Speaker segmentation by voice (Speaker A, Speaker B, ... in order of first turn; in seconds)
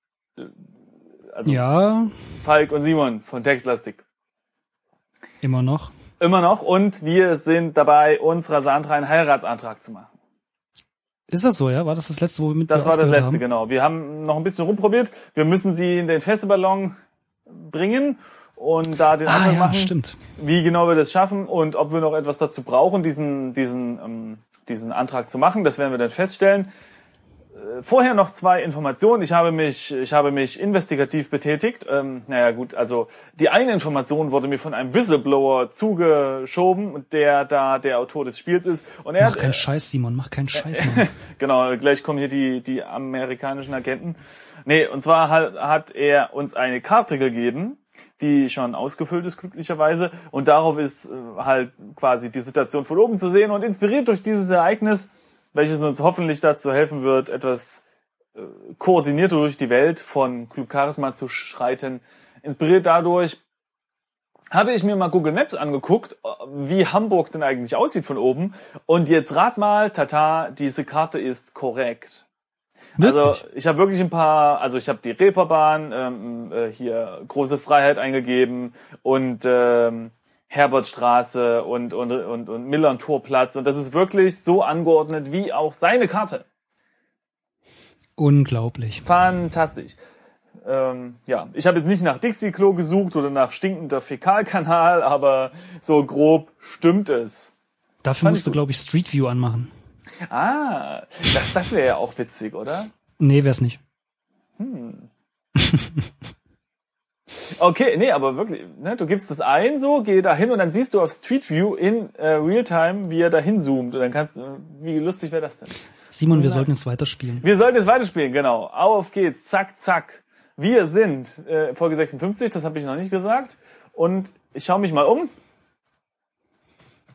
Speaker A: 1.3-1.6, 2.4-4.0, 6.2-10.1, 12.7-16.9, 17.5-26.7, 27.6-39.6, 40.5-57.8, 58.4-63.4, 64.5-72.2, 73.0-86.5, 89.1-90.0, 90.6-97.5, 98.2-98.6, 100.3-102.9, 104.6-105.1, 107.5-115.8, 116.3-116.7, 117.4-125.3
Speaker B: 1.4-2.2, 5.4-5.9, 11.3-13.4, 19.2-20.2, 39.2-41.1, 73.0-73.4, 88.2-89.1, 98.0-99.7, 103.2-103.8, 105.6-106.0, 116.1-117.5